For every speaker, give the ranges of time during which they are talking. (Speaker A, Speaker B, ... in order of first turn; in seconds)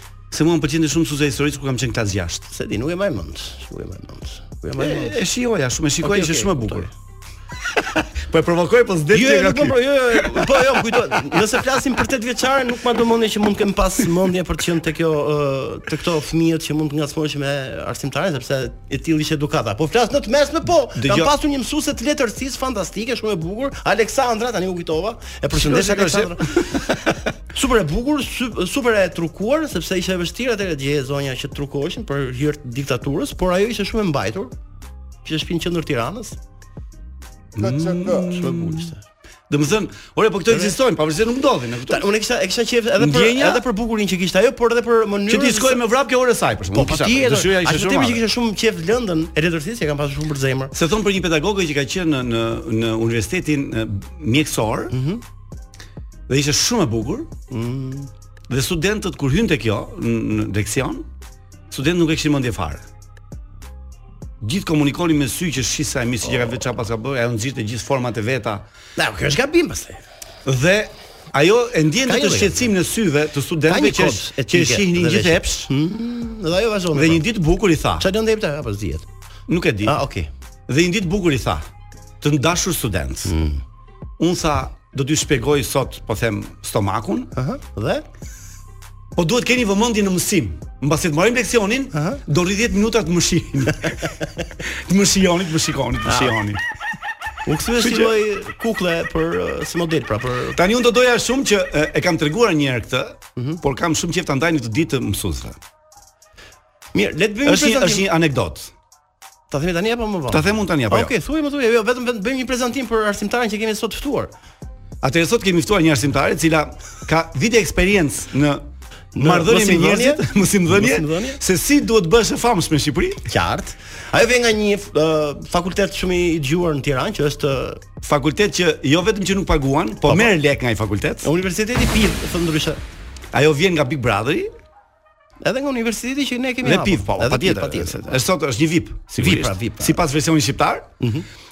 Speaker A: 0.3-2.5, 4.8-6.9, 8.2-11.2, 21.0-21.3, 25.5-27.0, 37.5-38.9, 39.5-42.1, 43.0-43.7, 45.3-48.2, 50.7-54.9, 56.3-57.3, 58.5-61.1, 61.7-62.9, 64.4-68.7, 70.5-75.7, 76.9-78.1, 79.5-80.0, 80.7-81.7, 82.2-83.3, 84.2-87.3, 89.2-96.6, 97.8-98.2, 100.5-105.6, 107.5-108.7, 110.3-111.1, 115.0-123.2, 128.0-131.3, 133.3-134.5, 136.6-140.9
Speaker B: 2.5-5.2, 6.0-6.9, 9.1-34.5, 35.2-36.4, 37.8-39.0, 40.5-40.8, 41.9-45.8, 46.7-50.7, 54.9-55.2, 57.5-58.1, 69.0-70.0, 72.1-72.7, 73.7-77.2, 78.0-79.1, 79.8-80.3, 83.3-83.6, 87.4-88.0, 91.9-92.2, 96.1-96.4, 97.5-100.6, 106.9-108.1, 109.5-114.3, 119.2-121.4, 123.3-127.8, 131.2-132.8, 135.4-138.2, 139.2-140.0, 141.0-141.3